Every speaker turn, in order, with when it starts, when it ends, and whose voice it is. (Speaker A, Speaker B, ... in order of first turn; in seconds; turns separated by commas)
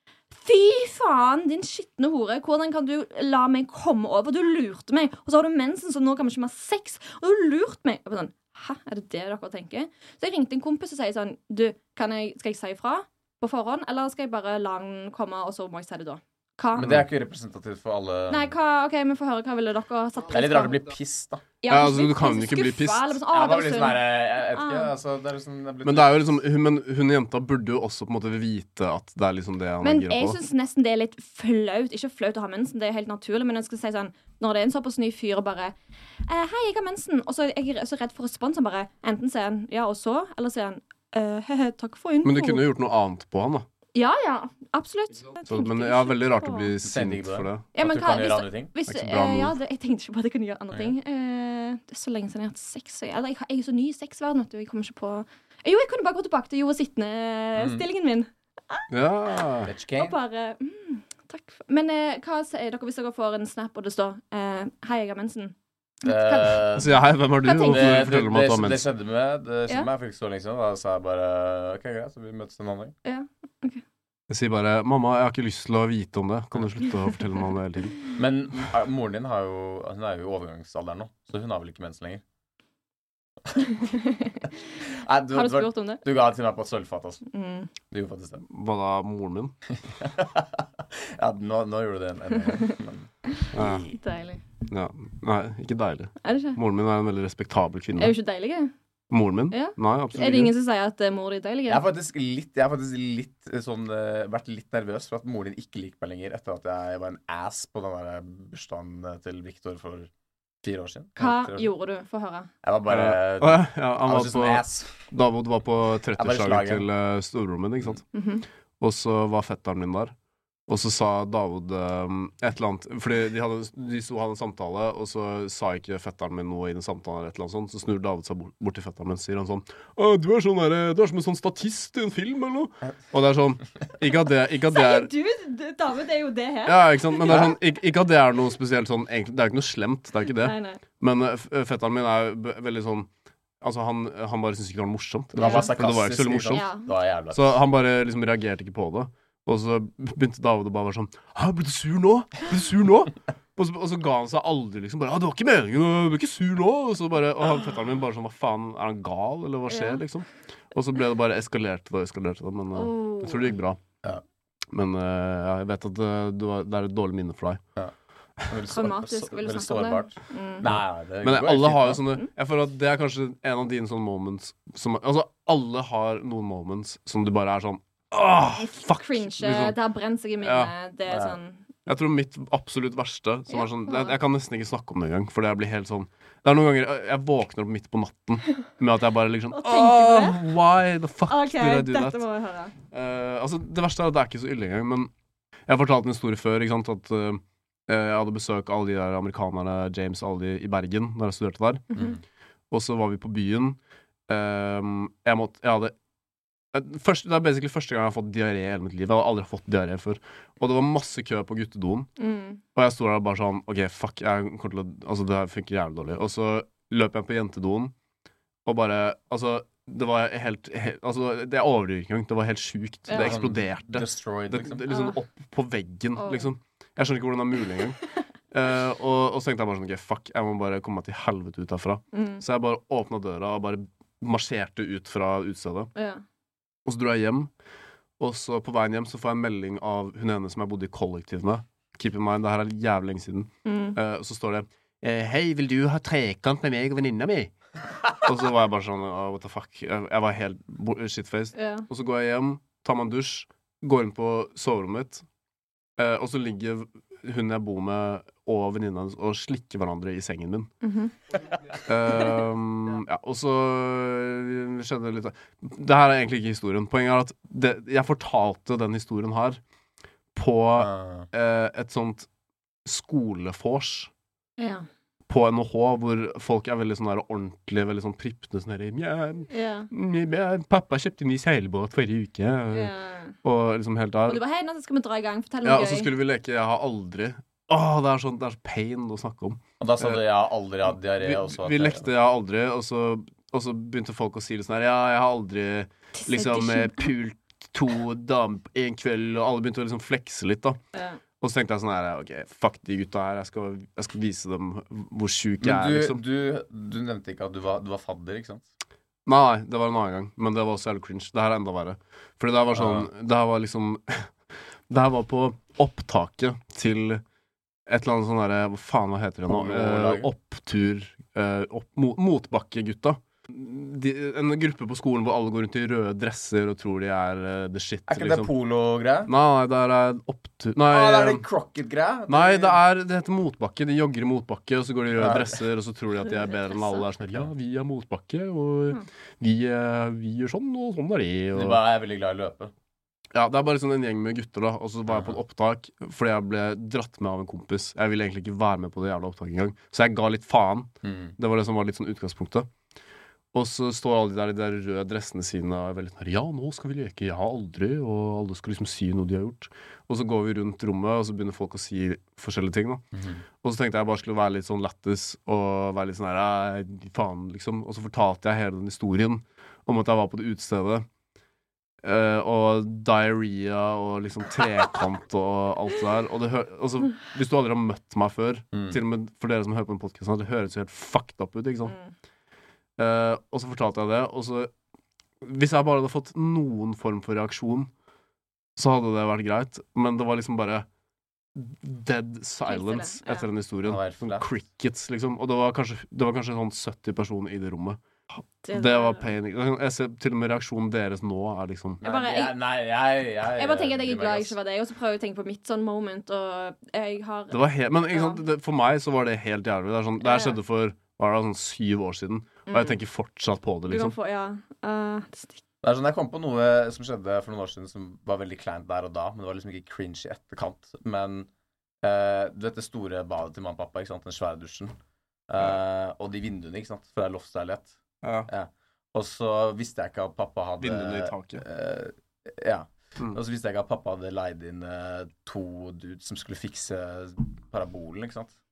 Speaker A: 0.3-17.0, Speaker B: 16.8-18.5, Speaker A: 18.3-20.8, Speaker B: 20.3-21.4, Speaker A: 21.6-24.9, Speaker C: 21.7-23.2, Speaker B: 23.3-26.4, Speaker C: 25.8-30.4, Speaker A: 29.8-35.7, Speaker A: 36.2-42.6, Speaker C: 42.2-43.6, Speaker A: 43.9-46.7, Speaker C: 45.5-47.6, Speaker B: 46.8-48.7, Speaker A: 47.7-58.9, Speaker C: 48.9-49.5, Speaker B: 57.6-57.8, Speaker C: 58.9-59.7, Speaker B: 59.6-60.1, Speaker A: 60.0-66.7, Speaker B: 66.0-66.9, Speaker C: 66.8-68.9, Speaker A: 67.4-68.0, Speaker B: 67.6-72.9, Speaker A: 73.0-73.8, Speaker C: 74.3-78.0, Speaker B: 78.1-82.2, Speaker A: 83.6-84.5, Speaker B: 84.9-87.2, Speaker A: 85.3-86.0, Speaker A: 87.3-87.7, Speaker B: 87.9-88.4, Speaker C: 88.5-89.5, Speaker B: 89.7-93.9, Speaker A: 93.3-94.4, Speaker C: 93.5-93.8, Speaker C: 94.7-98.1, Speaker A: 96.2-96.6, Speaker A: 98.0-98.7, Speaker C: 99.1-100.5, Speaker A: 99.5-101.8, Speaker B: 101.7-110.1, Speaker B: 110.6-111.7, Speaker A: 111.2-112.5, Speaker B: 112.6-115.0, Speaker C: 112.9-118.0, Speaker B: 116.2-116.9, Speaker A: 118.1-118.5, Speaker C: 118.8-120.1, Speaker C: 120.7-135.1, Speaker A: 134.7-137.4, Speaker C: 136.7-143.1, Speaker B: 137.3-137.6, Speaker A: 140.4-140.8, Speaker C: 143.6-146.7, Speaker B: 145.3-147.6, Speaker A: 145.4-145.7, Speaker A: 146.5-146.9, Speaker C: 147.3-163.8, Speaker A: 159.7-160.0, Speaker A: 162.7-163.5, Speaker C: 164.7-167.6, Speaker B: 168.5-172.0, Speaker A: 168.7-170.7, Speaker C: 170.7-179.8, Speaker A: 178.5-181.6, Speaker C: 180.4-180.7, Speaker B: 181.1-181.4, Speaker C: 181.9-192.2, Speaker A: 183.5-184.2, Speaker A: 189.5-190.4, Speaker A: 191.3-192.7, Speaker C: 192.9-195.1, Speaker C: 195.7-201.9, Speaker A: 201.9-202.2, Speaker C: 202.7-205.9, Speaker C: 206.7-212.1, Speaker A: 212.2-212.6, Speaker C: 212.7-217.9, Speaker C: 218.6-228.0, Speaker A: 223.1-223.4, Speaker B: 223.2-224.9, Speaker A: 224.9-225.2, Speaker A: 226.2-226.5, Speaker C: 228.5-235.9, Speaker A: 232.1-232.4, Speaker A: 235.9-236.2, Speaker C: 236.8-237.5, Speaker C: 238.2-247.5, Speaker A: 243.6-244.0, Speaker C: 248.2-255.2, Speaker A: 251.5-251.9, Speaker C: 256.0-260.7, Speaker A: 260.8-261.1, Speaker C: 261.8-269.6, Speaker C: 270.3-272.3, Speaker B: 270.8-271.3, Speaker C: 272.8-274.1, Speaker A: 274.6-274.9, Speaker C: 275.3-282.9, Speaker A: 279.5-279.9, Speaker A: 282.7-283.4, Speaker C: 283.4-284.4, Speaker A: 284.2-286.1, Speaker C: 285.6-290.2, Speaker B: 289.8-292.1, Speaker C: 291.2-300.8, Speaker A: 296.1-297.1, Speaker A: 300.9-301.2, Speaker C: 301.4-306.2, Speaker B: 305.6-308.6, Speaker C: 309.2-314.3, Speaker B: 312.7-313.1, Speaker C: 314.9-317.2, Speaker C: 317.9-328.5, Speaker B: 319.5-320.3, Speaker B: 328.1-329.3, Speaker C: 329.2-331.4, Speaker B: 330.8-332.8, Speaker C: 332.3-341.8, Speaker B: 335.1-335.6, Speaker A: 336.2-337.1, Speaker B: 341.5-342.7, Speaker C: 343.3-352.7, Speaker B: 345.1-345.4, Speaker B: 351.0-351.4, Speaker C: 353.5-363.0, Speaker B: 363.1-363.4, Speaker C: 363.6-371.1, Speaker C: 372.0-381.9, Speaker B: 378.7-379.0, Speaker A: 381.9-382.1, Speaker C: 383.0-384.7, Speaker C: 385.4-387.9, Speaker C: 388.8-390.9, Speaker C: 391.6-398.0, Speaker A: 392.7-393.5, Speaker B: 393.8-394.5, Speaker A: 398.6-399.3, Speaker C: 398.7-402.0, Speaker B: 402.0-404.6, Speaker A: 402.0-402.6, Speaker A: 403.6-408.4, Speaker C: 407.5-414.1, Speaker A: 410.2-410.6, Speaker A: 412.7-413.0, Speaker A: 413.9-415.6, Speaker B: 415.8-421.5, Speaker B: 422.0-424.9, Speaker B: 425.5-427.9, Speaker C: 428.2-428.5, Speaker B: 428.5-438.5, Speaker C: 430.8-431.6